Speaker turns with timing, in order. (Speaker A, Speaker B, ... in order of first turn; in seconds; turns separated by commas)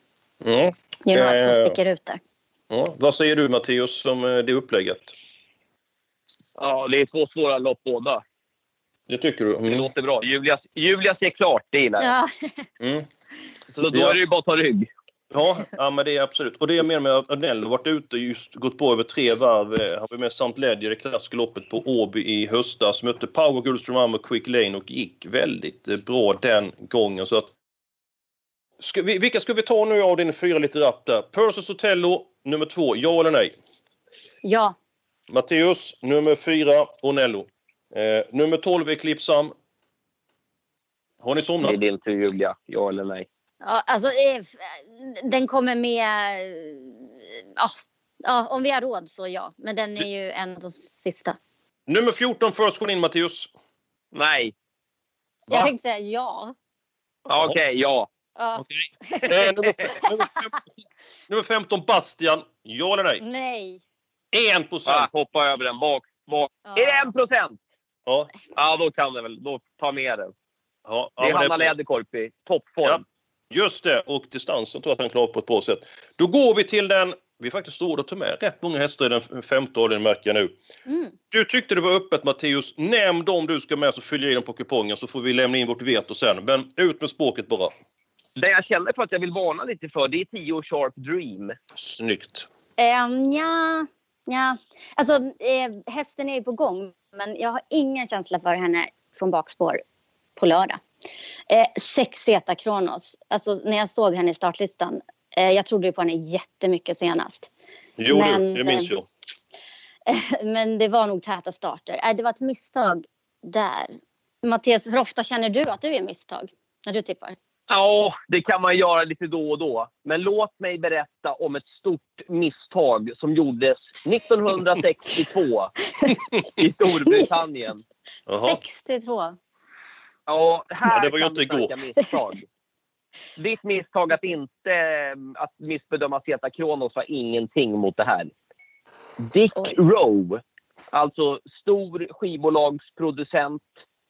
Speaker A: 0.4-1.8, Speaker B: 1.1-2.2, Speaker A: 2.7-5.1, Speaker C: 6.6-8.2, Speaker A: 9.1-9.8, Speaker C: 9.7-12.1, Speaker B: 12.0-12.6, Speaker A: 12.8-13.1, Speaker C: 13.7-14.9, Speaker A: 13.9-14.2, Speaker A: 15.3-27.5, Speaker A: 28.8-33.5, Speaker B: 34.4-34.7, Speaker A: 35.3-39.5, Speaker A: 41.2-41.8, Speaker C: 41.6-43.3, Speaker B: 43.6-51.4, Speaker A: 51.9-53.5, Speaker C: 54.1-54.5, Speaker B: 55.5-56.5, Speaker C: 57.3-58.1, Speaker B: 58.4-60.0, Speaker A: 58.6-60.7, Speaker A: 61.3-63.2, Speaker B: 63.2-63.8, Speaker A: 64.3-65.1, Speaker C: 64.9-67.6, Speaker B: 66.7-67.1, Speaker A: 68.1-68.3, Speaker C: 68.5-70.3, Speaker A: 70.8-71.7, Speaker C: 71.2-73.0, Speaker A: 72.8-80.5, Speaker B: 80.9-81.1, Speaker A: 81.3-87.7, Speaker C: 88.4-91.6, Speaker A: 91.8-92.5, Speaker B: 92.8-99.8, Speaker B: 100.3-100.8, Speaker B: 101.5-107.5, Speaker A: 108.0-109.0, Speaker B: 108.1-108.9, Speaker B: 110.1-117.3, Speaker C: 117.7-125.7, Speaker C: 126.6-127.8, Speaker A: 128.3-128.6, Speaker B: 128.4-129.3, Speaker C: 130.3-132.4, Speaker A: 130.9-131.7, Speaker C: 133.4-138.3, Speaker C: 139.2-143.7